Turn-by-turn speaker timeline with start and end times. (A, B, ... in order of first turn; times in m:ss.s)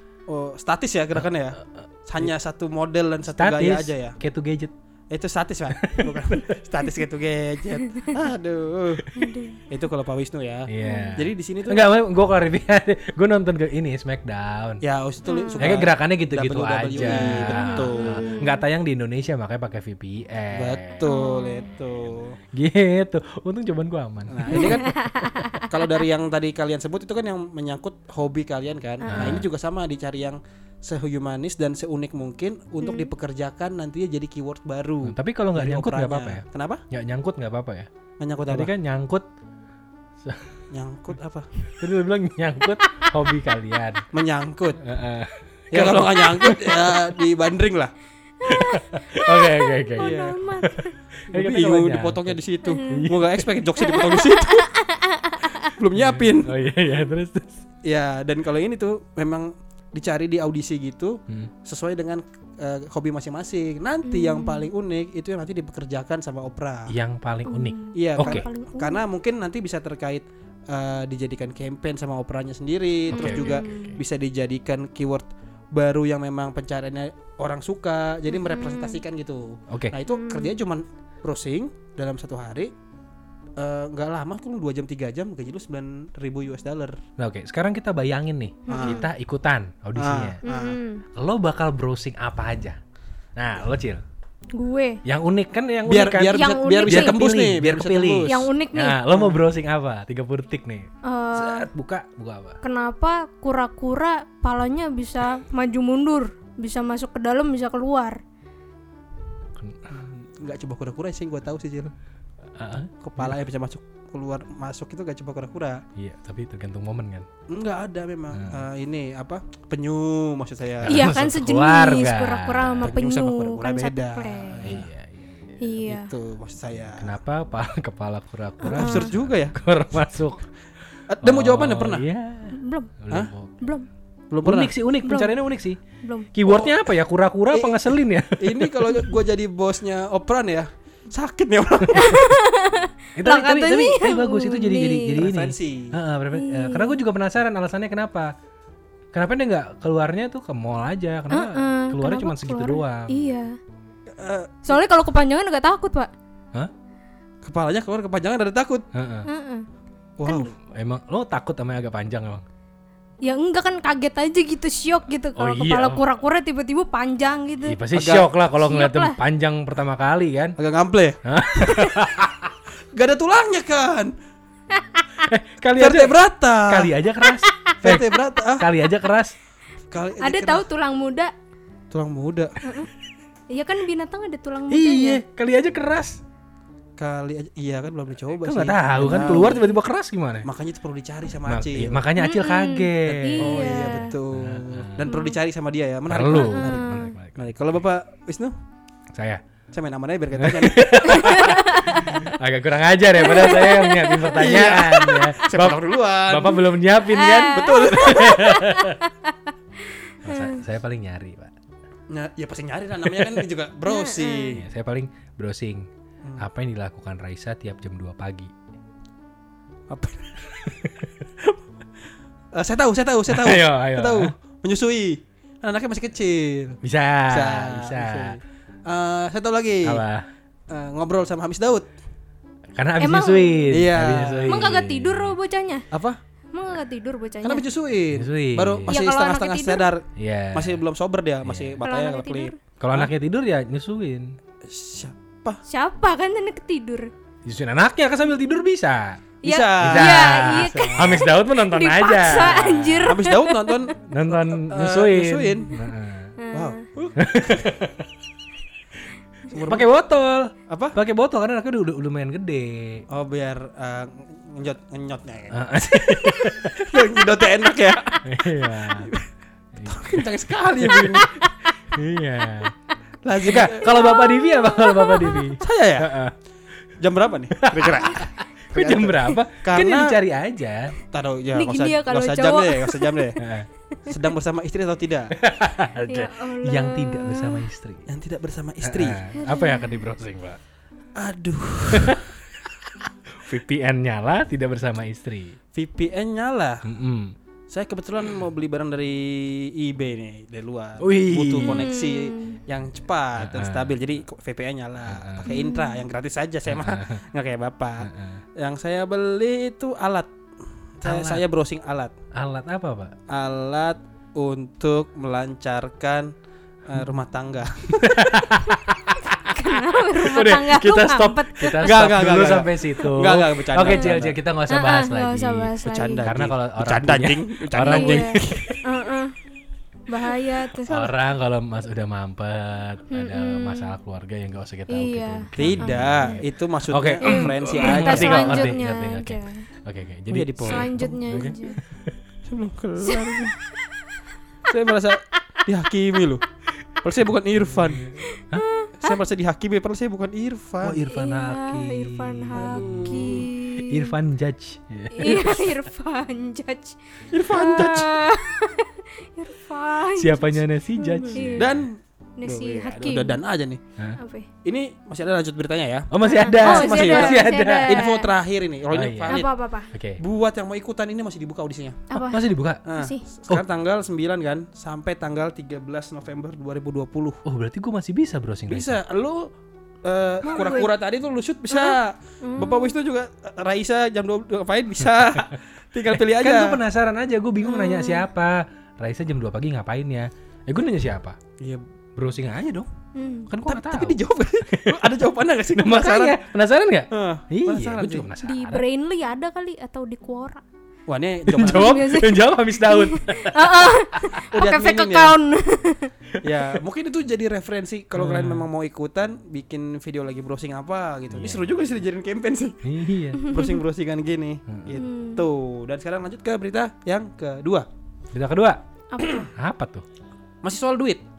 0:00.3-0:04.2 A
0:03.3-0:04.7 B
0:05.1-0:09.1 A
0:05.8-0:06.5 B
0:09.1-0:09.6 C
0:09.7-0:11.9 A
0:10.7-0:14.8 B
0:10.8-0:11.1 C
0:14.8-0:18.4 A
0:15.3-0:15.7 C
0:15.6-0:21.0 B
0:17.0-0:18.6 C
0:20.5-0:22.4 A
0:21.0-0:21.7 C
0:22.5-0:25.4 B
0:24.3-0:24.9 A
0:24.5-0:25.7 C
0:25.6-0:36.8 A
0:29.0-0:29.4 C
0:29.1-0:29.5 B
0:32.8-0:33.1 C
0:35.0-0:37.9 B
0:38.2-0:38.7 A
0:38.5-0:39.2 B
0:40.2-0:40.5 B
0:40.7-0:41.5 A
0:41.8-0:44.0 B
0:44.1-0:44.8 A
0:44.8-0:46.9 B
0:45.7-0:47.9 A
0:48.4-0:50.9 C
0:48.4-0:53.4 B
0:50.0-0:50.4 A
0:51.3-0:54.7 A
0:52.6-0:53.0 C
0:53.8-0:55.7 C
0:55.8-0:56.5 A
0:55.9-0:57.6 B
0:57.8-1:06.9 A
1:04.0-1:04.6 C
1:06.9-1:08.5 B
1:07.5-1:09.0 C
1:07.9-1:22.7 A
1:13.1-1:14.0 B
1:13.1-1:14.0 C
1:18.3-1:19.0 C
1:19.7-1:20.0 B
1:20.1-1:20.6 C
1:23.6-1:27.0 A
1:27.2-1:30.4 B
1:28.7-1:29.0 C
1:28.7-1:29.0 A
1:30.0-1:30.8 A
1:30.4-1:31.0 C
1:31.1-1:32.8 B
1:33.4-1:34.0 B
1:34.5-1:35.0 C
1:35.0-1:42.6 B
1:35.8-1:38.5 A
1:36.3-1:37.2 C
1:38.2-1:39.0 C
1:39.1-1:39.4 A
1:41.0-1:41.7 C
1:42.6-1:48.2 C
1:49.6-1:50.0 B
1:49.9-1:51.9 A
1:52.6-1:53.4 B
1:53.0-1:55.8 A
1:56.0-1:57.3 B
1:57.5-2:01.1 A
1:58.3-1:58.6 B
2:00.8-2:03.0 B
2:00.9-2:04.7 C
2:02.8-2:04.9 A
2:04.6-2:05.6 B
2:05.6-2:06.1 C
2:05.8-2:07.1 A
2:07.0-2:10.4 B
2:08.6-2:09.1 C
2:08.7-2:09.6 A
2:11.1-2:12.0 A
2:11.2-2:13.6 B
2:12.5-2:12.9 C
2:13.6-2:13.9 C
2:14.3-2:14.7 A
2:14.4-2:15.8 B
2:15.0-2:15.4 C
2:16.0-2:16.3 C
2:16.3-2:19.0 B
2:16.5-2:16.8 A
2:17.5-2:17.8 A
2:18.4-2:22.3 A
2:21.9-2:25.2 C
2:23.2-2:28.3 B
2:25.1-2:25.9 A
2:26.3-2:27.0 C
2:29.1-2:33.2 B
2:31.3-2:33.6 C
2:34.1-2:34.8 A
2:34.6-2:36.1 C
2:37.4-2:38.8 A
2:38.9-2:39.3 B
2:39.2-2:39.7 C
2:40.2-2:40.5 A
2:40.7-2:42.4 B
2:43.2-2:47.8 C
2:45.4-2:46.0 B
2:47.6-2:50.6 B
2:47.9-2:48.3 A
2:48.6-2:49.2 C
2:50.6-2:51.2 A
2:51.2-2:52.5 B
2:52.9-2:54.1 A
2:55.2-2:59.3 B
2:55.8-2:56.9 A
2:57.8-2:58.6 A
2:59.9-3:00.6 A
3:00.2-3:01.3 C
3:01.9-3:02.5 A
3:02.6-3:02.9 C
3:03.5-3:05.2 C
3:04.7-3:06.2 B
3:07.0-3:09.6 A
3:08.4-3:10.5 B
3:09.0-3:09.8 C
3:10.4-3:12.0 A
3:11.4-3:15.0 B
3:12.2-3:14.2 C
3:13.3-3:18.5 A
3:15.0-3:15.4 C
3:16.1-3:17.5 B
3:16.3-3:17.1 C
3:19.1-3:19.4 B
3:19.7-3:21.6 A
3:20.4-3:29.0 B
3:21.1-3:22.2 C
3:23.2-3:25.3 C
3:24.3-3:26.6 A
3:27.1-3:30.6 C
3:27.4-3:28.5 A
3:30.2-3:31.5 B
3:32.1-3:34.6 A
3:33.9-3:34.6 C
3:34.5-3:38.5 B
3:39.9-3:40.5 A
3:40.6-3:41.1 B
3:42.5-3:50.0 A
3:43.3-3:44.3 B
3:46.8-3:48.4 B
3:49.8-3:50.2 B
3:50.7-3:51.9 A
3:52.8-3:55.3 B
3:53.0-3:53.8 C
3:53.7-3:54.7 A
3:54.5-3:55.8 C
3:55.9-3:56.2 A
3:56.5-3:57.6 C
3:57.4-4:03.1 A
3:58.1-3:59.0 B
3:58.9-3:59.9 C
4:00.2-4:00.8 B
4:01.4-4:01.8 B
4:01.8-4:02.6 C
4:02.8-4:04.4 B
4:04.6-4:05.6 A
4:05.7-4:07.1 C
4:07.4-4:09.2 B
4:09.4-4:11.2 A
4:09.4-4:13.9 C
4:09.8-4:13.1 B
4:13.0-4:15.7 A
4:14.1-4:16.3 B
4:16.4-4:16.8 C
4:16.5-4:17.8 A
4:17.2-4:18.1 B
4:19.5-4:19.9 A
4:19.6-4:23.0 B
4:20.7-4:21.0 A
4:23.1-4:29.3 A
4:25.5-4:27.0 B
4:28.2-4:29.1 B
4:29.8-4:30.2 B
4:29.8-4:31.3 A
4:30.8-4:31.2 B
4:31.8-4:32.7 B
4:33.2-4:34.0 A
4:33.4-4:36.3 B
4:33.6-4:35.5 C
4:35.6-4:36.1 A
4:37.0-4:40.2 A
4:37.5-4:40.9 B
4:41.0-4:43.4 A
4:41.5-4:43.3 C
4:43.4-4:43.7 B
4:44.1-4:45.3 A
4:45.3-4:48.1 B
4:46.1-4:47.7 C
4:48.1-4:49.2 A
4:48.8-4:50.6 B
4:49.3-4:50.0 C
4:51.2-4:52.2 A
4:51.9-4:55.6 B
4:55.7-4:56.8 A
4:56.8-4:57.3 B
4:57.7-5:10.3 A
5:01.0-5:01.9 B
5:01.6-5:02.6 C
5:03.4-5:03.9 B
5:05.1-5:05.5 B
5:05.5-5:06.0 C
5:06.7-5:07.2 B
5:08.0-5:08.4 B
5:11.0-5:12.1 A
5:11.0-5:11.4 B
5:12.3-5:13.1 B
5:13.3-5:16.3 A
5:16.8-5:18.3 A
5:17.9-5:19.5 B
5:19.4-5:22.0 C
5:20.1-5:28.7 B
5:21.8-5:24.4 A
5:23.8-5:24.1 C
5:24.7-5:26.3 C
5:25.8-5:28.8 A
5:27.8-5:29.3 C
5:30.1-5:31.1 C
5:30.8-5:42.2 B
5:33.1-5:33.9 C
5:34.9-5:36.4 C
5:35.6-5:38.8 A
5:37.2-5:39.7 C
5:40.3-5:41.5 A
5:40.6-5:41.8 C
5:42.4-5:43.6 A
5:43.0-5:43.4 C
5:44.6-5:46.4 A
5:47.0-5:48.1 A
5:47.8-5:48.6 B
5:48.2-5:49.2 C
5:49.0-5:51.0 A
5:50.8-5:55.8 B
5:51.1-5:54.1 C
5:52.5-5:53.5 A
5:55.1-6:01.7 C
5:57.3-5:58.1 A
6:00.2-6:01.8 B
6:01.5-6:03.8 A
6:02.4-6:03.4 C
6:04.2-6:04.5 C
6:04.6-6:09.5 A
6:06.1-6:08.0 B
6:06.2-6:08.3 C
6:08.9-6:10.2 B
6:09.3-6:09.9 C
6:10.2-6:12.0 A
6:12.1-6:13.2 C
6:12.2-6:12.8 B
6:12.8-6:17.4 A
6:17.4-6:19.0 B
6:18.7-6:19.5 A
6:20.0-6:26.8 A
6:20.4-6:20.9 C
6:21.7-6:22.9 C
6:26.2-6:31.4 B
6:27.6-6:28.2 C
6:31.6-6:31.8 A
6:32.2-6:32.9 B
6:33.1-6:33.5 C
6:33.5-6:35.0 B
6:33.6-6:36.4 A
6:35.8-6:38.8 B
6:37.1-6:38.3 A
6:38.4-6:40.6 C
6:41.1-6:42.0 A
6:41.5-6:44.4 B
6:41.7-6:46.1 C
6:44.5-6:45.4 A
6:46.4-6:52.8 A
6:48.1-6:48.7 B
6:51.3-6:51.7 B
6:52.8-6:53.5 B
6:53.4-6:57.9 A
6:53.4-6:53.8 C
6:54.7-6:55.0 B
6:54.9-6:55.4 C
6:58.3-6:58.8 B
6:59.1-6:59.5 C
6:59.5-7:00.0 B
7:00.6-7:01.2 A